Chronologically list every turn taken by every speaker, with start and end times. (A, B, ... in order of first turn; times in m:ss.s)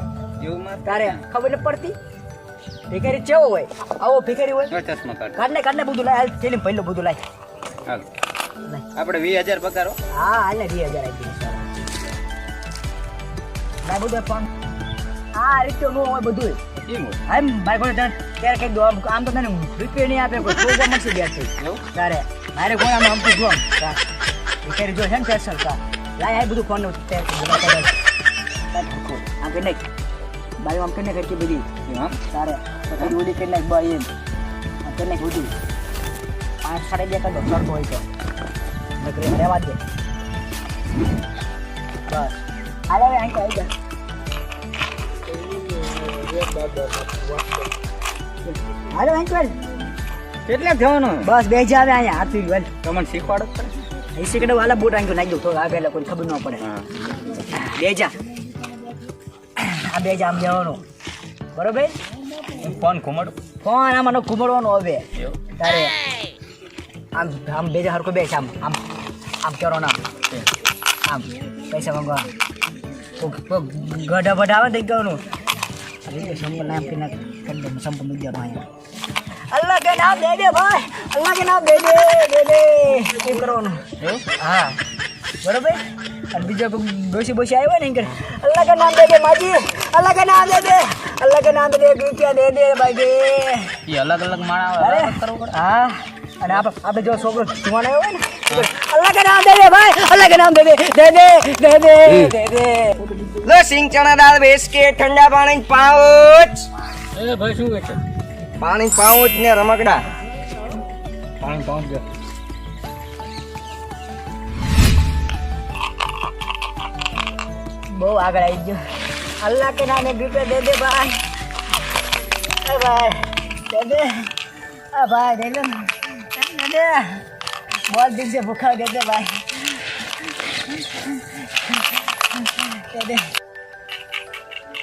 0:00.4-0:01.2 A
0:00.8-0:01.9 B
0:02.9-0:04.7 B
0:04.7-0:05.4 A
0:05.4-0:07.2 B
0:08.9-0:10.0 A
0:10.1-0:11.8 B
0:13.8-0:14.5 B
0:15.3-0:16.6 B
0:16.9-0:17.2 A
0:17.3-0:24.0 B
0:24.6-0:27.9 B
0:28.7-0:29.8 B
0:30.6-0:31.6 B
0:31.9-0:32.2 A
0:32.3-0:34.1 B
0:34.8-0:35.5 B
0:36.6-0:38.0 B
0:39.0-0:39.8 B
0:42.1-0:42.3 B
0:42.9-0:43.7 B
0:45.4-0:47.4 A
0:48.5-0:49.6 B
0:50.4-0:51.3 A
0:51.2-0:52.7 B
0:52.8-0:53.7 A
0:54.1-0:56.6 B
0:56.6-0:57.3 A
0:57.4-0:58.1 B
0:59.6-1:00.8 B
1:01.5-1:01.9 B
1:02.6-1:03.4 A
1:03.6-1:05.9 B
1:07.1-1:08.8 B
1:09.4-1:10.0 B
1:11.1-1:12.3 B
1:13.2-1:15.2 B
1:16.0-1:18.6 B
1:19.5-1:23.8 B
1:24.0-1:24.2 A
1:24.4-1:24.8 B
1:25.4-1:33.8 B
1:33.9-1:35.5 A
1:34.8-1:43.4 B
1:43.4-1:46.7 C
1:47.1-1:48.0 A
1:48.6-1:50.0 C
1:57.9-1:58.8 B
1:59.4-2:01.2 B
2:02.6-2:04.3 B
2:04.9-2:07.2 B
2:07.9-2:09.6 B
2:11.0-2:11.7 B
2:12.5-2:13.3 B